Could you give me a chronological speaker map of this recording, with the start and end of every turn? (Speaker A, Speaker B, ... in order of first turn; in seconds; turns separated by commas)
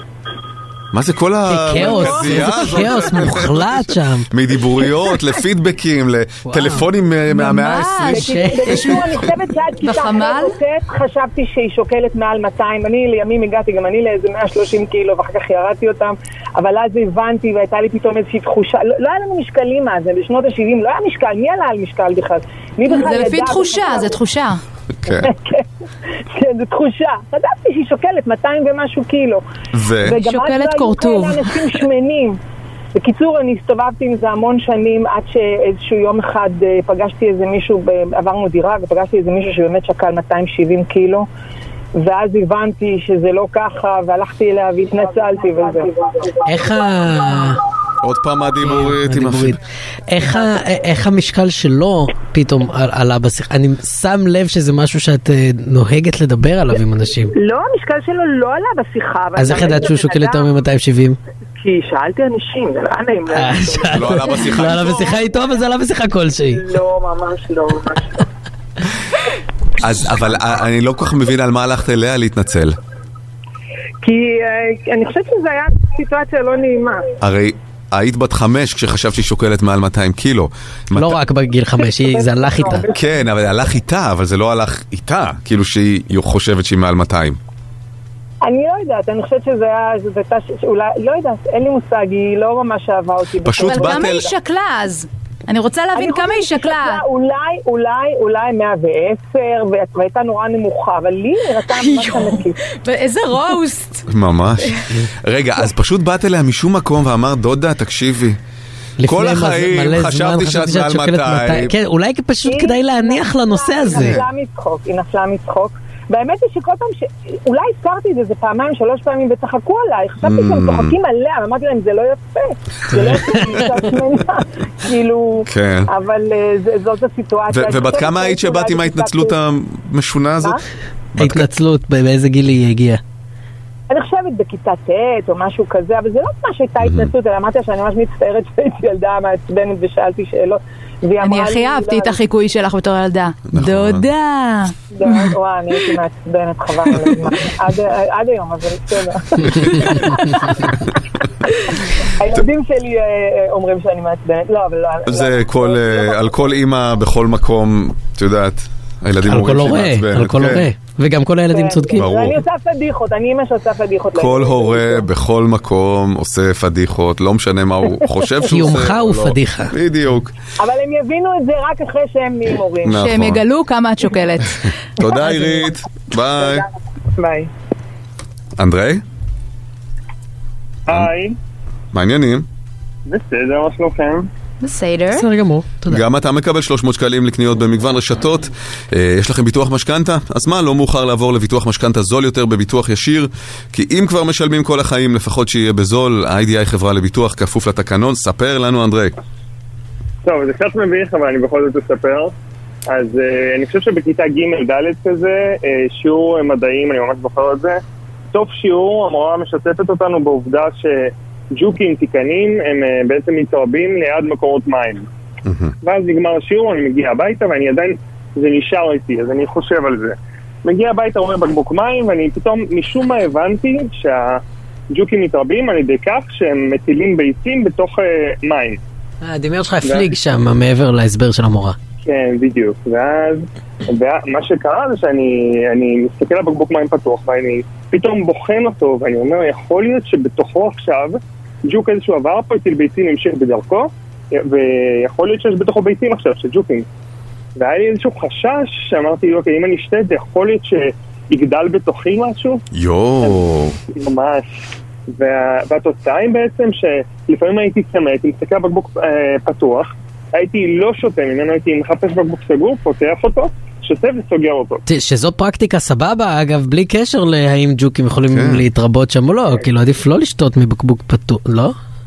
Speaker A: 0.9-8.3, Speaker B: 1.5-4.3, Speaker B: 6.5-6.9, Speaker C: 7.3-9.2, Speaker B: 8.0-8.9, Speaker D: 8.1-24.2, Speaker C: 9.8-10.6, Speaker C: 22.9-24.6, Speaker A: 25.0-25.3, Speaker D: 25.1-25.7, Speaker D: 26.3-29.4, Speaker A: 29.7-30.2, Speaker D: 30.0-32.4, Speaker C: 30.1-31.6, Speaker D: 32.9-41.3, Speaker D: 41.9-46.0, Speaker B: 46.5-47.6, Speaker A: 48.0-49.6, Speaker B: 48.6-57.3, Speaker D: 57.4-60.5, Speaker B: 59.4-61.2, Speaker D: 61.6-65.0, Speaker B: 63.3-66.7, Speaker A: 63.8-65.3, Speaker D: 66.6-68.2, Speaker A: 69.8-72.8, Speaker D: 74.0-77.0, Speaker A: 77.2-81.2, Speaker B: 80.9-82.8, Speaker D: 81.8-83.3, Speaker A: 82.9-87.4, Speaker D: 88.4-94.3, Speaker A: 93.4-94.3, Speaker C: 93.6-97.0, Speaker D: 95.9-102.5, Speaker C: 101.7-104.1, Speaker A: 104.1-108.4, Speaker B: 109.0-114.2, Speaker A: 109.0-111.7, Speaker D: 112.4-129.3, Speaker A: 120.2-120.9, Speaker B: 122.9-123.6, Speaker A: 125.4-125.9, Speaker A: 127.5-130.6, Speaker A: 131.1-131.5, Speaker B: 131.2-133.0, Speaker D: 133.9-142.2, Speaker A: 136.8-137.1, Speaker C: 141.2-145.3, Speaker A: 143.5-144.1, Speaker D: 144.9-150.8, Speaker B: 149.5-150.2, Speaker D: 151.5-156.3, Speaker A: 155.1-160.7, Speaker B: 159.2-162.1, Speaker D: 161.5-165.1, Speaker A: 161.9-162.4, Speaker A: 164.1-170.3, Speaker B: 168.5-169.7, Speaker D: 170.6-173.0, Speaker A: 172.8-173.4, Speaker C: 172.9-174.7, Speaker A: 175.0-176.6, Speaker D: 175.0-175.7, Speaker D: 176.3-176.6, Speaker D: 177.2-177.5, Speaker A: 178.6-179.0, Speaker E: 180.9-181.3, Speaker A: 181.9-182.4, Speaker E: 183.1-184.3, Speaker C: 184.6-185.2, Speaker B: 185.1-186.0, Speaker A: 185.9-199.2, Speaker E: 200.2-202.3, Speaker E: 202.9-207.8, Speaker E: 208.3-215.1, Speaker A: 215.4-215.7, Speaker E: 215.8-228.8, Speaker B: 229.2-231.8, Speaker E: 229.8-230.2, Speaker E: 232.0-246.8, Speaker E: 247.6-252.6, Speaker A: 252.7-253.8, Speaker E: 253.9-264.8, Speaker B: 264.9-271.7, Speaker A: 268.3-268.6